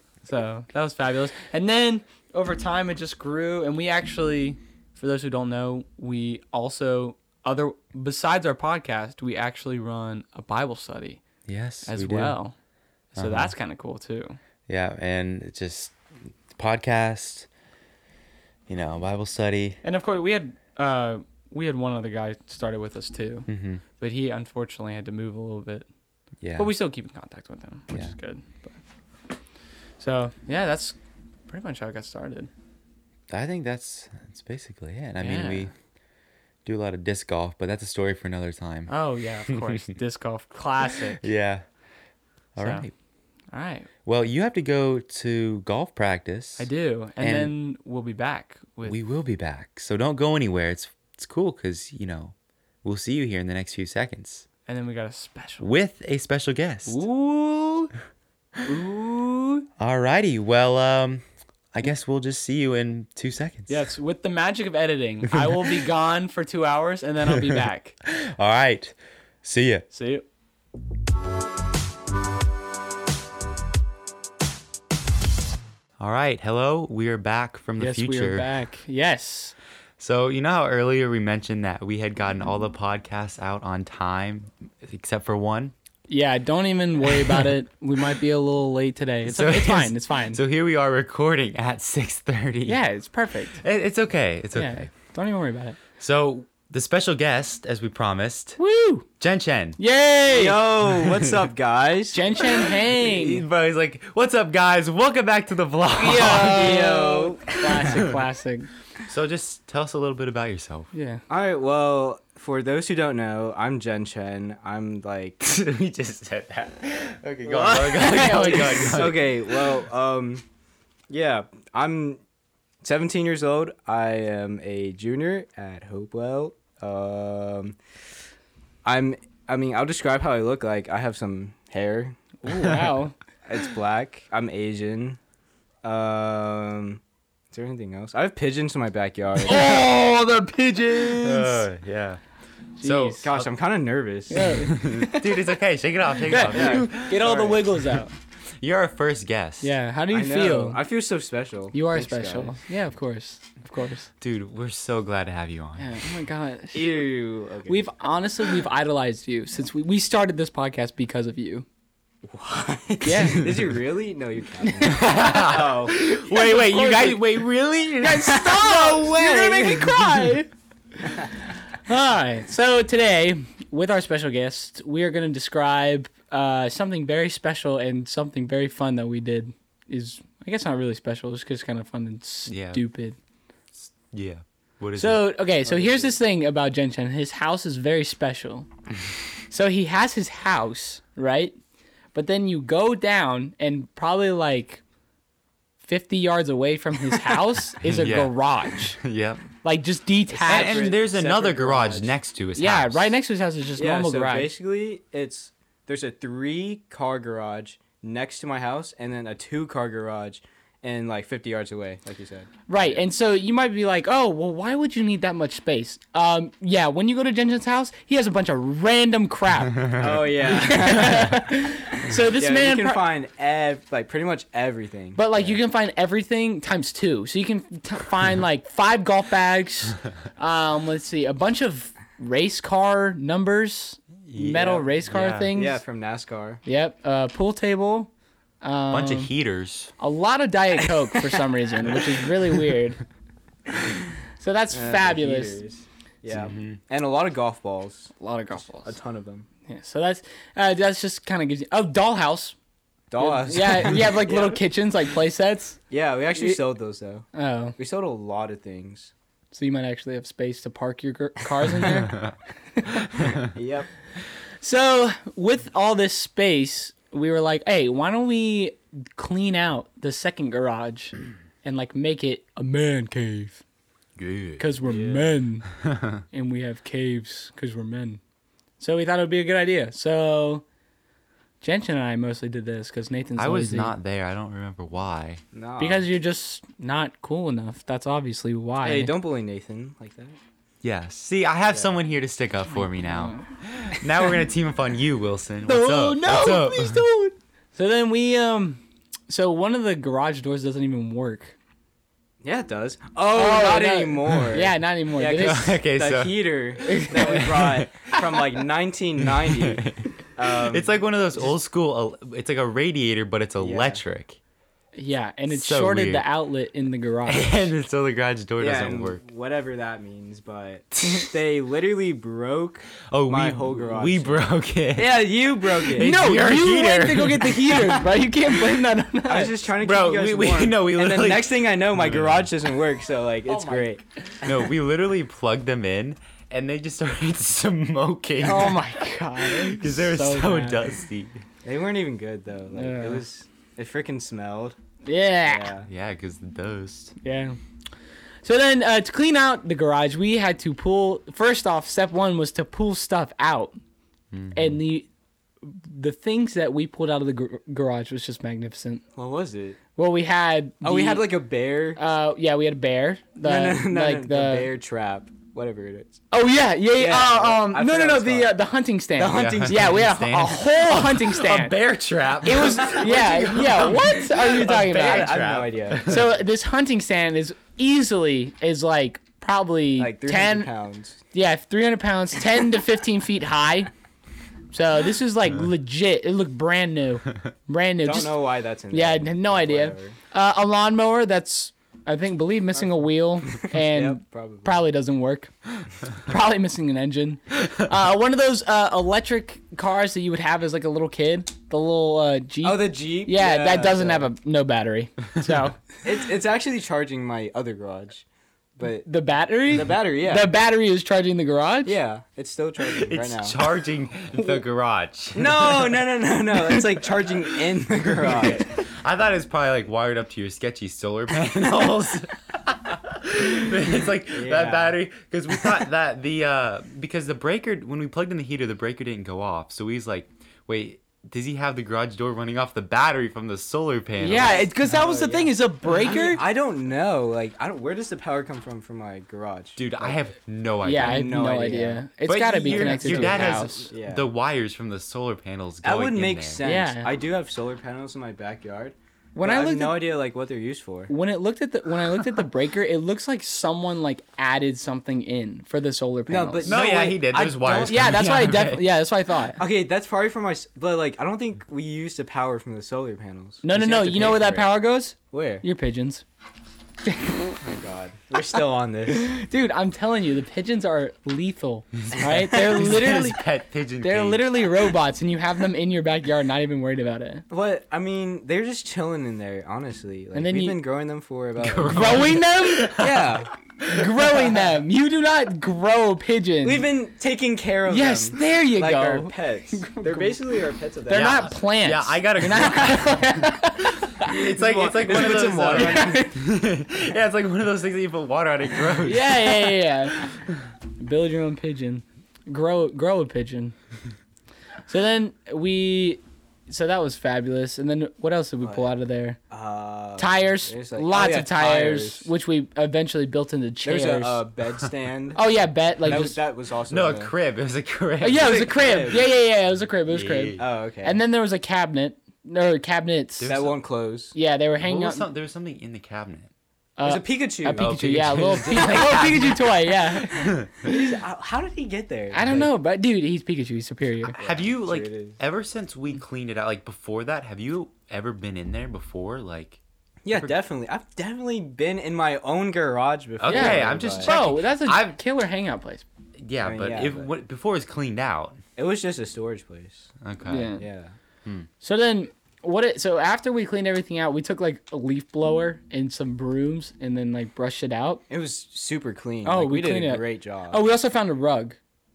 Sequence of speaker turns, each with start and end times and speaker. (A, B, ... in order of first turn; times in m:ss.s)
0:00.2-0:11.2 A
0:11.5-0:12.4 B
0:11.9-0:12.5 A
0:13.1-0:14.4 A
0:13.2-0:13.5 B
0:14.7-0:16.0 B
0:16.5-0:17.5 B
0:18.7-0:19.8 B
0:19.8-0:25.8 A
0:23.5-0:23.8 B
0:26.4-0:26.7 B
0:26.6-0:28.8 A
0:30.0-0:31.0 A
0:31.5-0:32.5 A
0:33.3-0:35.7 B
0:35.2-0:35.7 A
0:36.6-0:38.9 B
0:38.9-0:41.2 A
0:41.2-0:41.6 B
0:42.6-0:42.9 B
0:42.6-0:42.8 A
0:43.5-0:43.9 A
0:44.0-0:46.7 B
0:46.6-0:49.0 A
0:47.2-0:47.5 B
0:48.8-0:54.4 B
0:54.7-0:55.7 A
0:55.6-0:57.0 B
0:56.9-0:57.9 A
0:58.6-0:59.7 A
0:59.8-1:03.8 B
1:03.7-1:07.9 A
1:05.3-1:05.6 B
1:07.3-1:09.8 B
1:09.9-1:10.2 A
1:16.0-1:18.5 B
1:17.8-1:19.5 A
1:20.0-1:25.7 B
1:26.1-1:30.4 A
1:29.2-1:32.8 B
1:32.6-1:33.6 A
1:33.6-1:34.9 B
1:34.5-1:35.8 A
1:36.0-1:38.6 B
1:38.6-1:39.1 A
1:39.2-1:39.8 B
1:39.8-1:40.6 A
1:40.3-1:42.6 C
1:41.0-1:41.4 B
1:42.1-1:43.4 A
1:42.4-1:46.8 B
1:46.0-1:48.7 A
1:46.3-1:48.0 C
1:47.8-1:48.2 B
1:49.0-1:50.9 B
1:50.9-1:51.2 A
1:51.3-1:55.4 C
1:55.4-1:59.7 B
1:57.4-2:00.4 C
1:57.9-1:59.1 A
2:01.1-2:02.2 C
2:02.8-2:07.8 C
2:08.8-2:12.2 C
2:12.4-2:13.1 A
2:12.5-2:12.8 B
2:13.4-2:15.2 C
2:15.8-2:19.9 C
2:19.4-2:21.6 A
2:21.1-2:22.2 B
2:22.8-2:23.3 A
2:22.8-2:23.4 B
2:23.2-2:24.7 C
2:24.3-2:25.5 A
2:24.4-2:27.5 B
2:26.3-2:28.1 A
2:26.3-2:27.6 C
2:28.6-2:29.7 B
2:29.6-2:30.8 A
2:30.1-2:32.6 C
2:31.7-2:34.1 A
2:34.2-2:36.0 B
2:35.8-2:37.0 A
2:36.7-2:37.8 C
2:37.6-2:41.6 A
2:42.3-2:46.0 C
2:43.0-2:43.6 A
2:44.6-2:45.5 A
2:44.8-2:48.6 B
2:46.0-2:50.5 A
2:48.3-2:50.1 C
2:51.8-3:03.2 A
3:02.5-3:02.8 B
3:03.8-3:05.3 B
3:05.0-3:08.7 A
3:05.6-3:06.2 C
3:09.5-3:11.6 A
3:12.1-3:14.8 A
3:15.8-3:19.0 A
3:17.8-3:18.3 B
3:18.9-3:19.5 B
3:19.6-3:20.9 A
3:20.3-3:22.1 C
3:20.4-3:23.1 B
3:22.6-3:24.5 A
3:23.8-3:33.0 C
3:32.7-3:43.0 A
3:39.7-3:40.1 B
3:40.0-3:45.6 C
3:45.2-3:55.8 A
3:54.3-3:55.5 B
3:54.4-3:54.9 C
3:55.5-3:56.6 C
3:56.6-3:58.1 A
3:58.6-3:59.3 A
3:58.9-3:59.9 B
4:00.0-4:03.0 A
4:01.2-4:02.2 C
4:04.4-4:05.6 A
4:04.7-4:09.4 C
4:06.3-4:06.8 B
4:08.2-4:09.0 A
4:09.7-4:12.5 A
4:13.1-4:14.6 C
4:13.2-4:15.8 A
4:15.9-4:17.2 C
4:17.3-4:17.8 A
4:17.8-4:19.1 C
4:19.5-4:23.2 A
4:22.0-4:22.3 B
4:23.2-4:23.4 B
4:23.5-4:23.9 C
4:24.6-4:33.6 A
4:34.2-4:34.6 B
4:34.6-4:35.7 A
4:34.8-4:35.3 C
4:35.9-4:36.2 B
4:36.3-4:38.2 A
4:38.8-4:40.6 A
4:41.6-4:43.9 A
4:43.4-4:45.4 B
4:45.5-4:46.1 C
4:45.8-4:49.1 A
4:48.8-4:50.4 C
4:50.8-4:57.0 B
4:53.0-4:53.4 A
4:55.6-5:01.5 A
5:02.4-5:11.0 C
5:03.3-5:05.8 A
5:05.3-5:08.1 B
5:06.8-5:07.6 A
5:09.4-5:10.1 B
5:10.6-5:14.4 B
5:13.6-5:14.0 C
5:14.9-5:17.7 A
5:15.5-5:16.2 B
5:17.2-5:19.2 B
5:18.6-5:26.2 C
5:21.0-5:21.3 B
5:23.1-5:28.0 B
5:25.9-5:29.6 A
5:29.2-5:34.0 C
5:29.8-5:32.5 B
5:33.5-5:34.0 A
5:34.4-5:38.9 B
5:38.4-5:40.8 A
5:39.4-5:41.4 B
5:41.6-5:44.8 C
5:42.7-5:43.2 A
5:45.0-5:45.7 A
5:45.4-5:45.9 C
5:45.8-5:47.2 B
5:47.2-5:47.6 A
5:48.4-5:53.8 A
5:54.3-5:54.8 B
5:54.5-5:55.1 A
5:55.6-5:59.0 A
5:59.2-5:59.8 C
6:00.0-6:01.3 A
6:00.8-6:02.0 C
6:02.0-6:04.7 A
6:03.4-6:06.2 C
6:06.3-6:11.7 A
6:07.0-6:08.5 C
6:09.2-6:10.0 C
6:09.3-6:16.3 B
6:12.4-6:15.4 A
6:14.6-6:16.2 C
6:16.0-6:20.7 A
6:20.0-6:21.2 C
6:21.3-6:23.9 A
6:24.7-6:28.4 A
6:28.0-6:30.2 C
6:28.9-6:45.9 A
6:32.7-6:34.8 C
6:42.6-6:44.3 C
6:46.0-6:48.2 C
6:48.8-6:49.1 C
6:49.0-6:52.0 A
6:49.7-6:50.5 C
6:51.8-6:53.6 C
6:52.9-6:56.0 B
6:55.3-6:58.7 C
6:58.2-7:14.7 B
7:04.3-7:05.0 C
7:14.2-7:16.4 A
7:14.3-7:20.2 C
7:19.8-7:21.2 B
7:20.8-7:23.9 A
7:21.0-7:22.0 C
7:22.2-7:26.6 B
7:22.6-7:24.3 C
7:25.8-7:31.1 C
7:26.6-7:27.1 A
7:29.3-7:30.0 A
7:31.1-7:36.7 A
7:36.3-7:38.2 C
7:36.6-7:38.9 B
7:37.6-7:39.6 A
7:39.6-7:44.8 C
7:43.6-7:46.2 A
7:45.3-7:45.6 C
7:47.0-7:47.5 A
7:47.6-7:49.3 C
7:49.1-7:53.4 A
7:52.0-7:54.6 B
7:54.0-7:57.4 A
7:57.5-8:03.5 C
8:00.3-8:00.8 A
8:01.6-8:04.1 B
8:01.9-8:03.0 A
8:03.8-8:06.8 A
8:06.6-8:11.5 C
8:07.9-8:10.4 A
8:11.1-8:14.3 A
8:11.1-8:13.5 B
8:14.1-8:19.4 B
8:14.3-8:16.2 C
8:15.1-8:16.3 A
8:19.0-8:20.3 A
8:21.0-8:23.7 A
8:24.9-8:29.4 A
8:28.6-8:28.9 C
8:29.5-8:32.3 C
8:30.2-8:34.4 A
8:33.8-8:35.4 C
8:35.3-8:36.4 A
8:36.0-8:37.3 C
8:36.9-8:38.7 B
8:38.2-8:43.5 A
8:38.4-8:39.3 C
8:40.1-8:40.6 B
8:40.6-8:41.2 C
8:43.4-8:43.7 B
8:43.5-8:44.3 C
8:44.3-8:45.2 A
8:44.8-8:46.5 B
8:47.0-8:51.1 A
8:47.0-8:48.0 C
8:47.8-8:50.7 B
8:48.7-8:49.4 C
8:50.8-8:52.7 C
8:52.3-8:54.4 A
8:54.3-8:55.4 C
8:54.4-8:59.8 B
9:00.2-9:04.3 C
9:03.4-9:05.1 B
9:03.5-9:06.0 A
9:06.4-9:08.6 B
9:06.6-9:07.3 C
9:08.8-9:10.1 C
9:10.2-9:10.7 B
9:10.5-9:10.8 A
9:10.8-9:11.2 C
9:11.8-9:18.2 A
9:18.3-9:20.8 C
9:19.4-9:21.8 A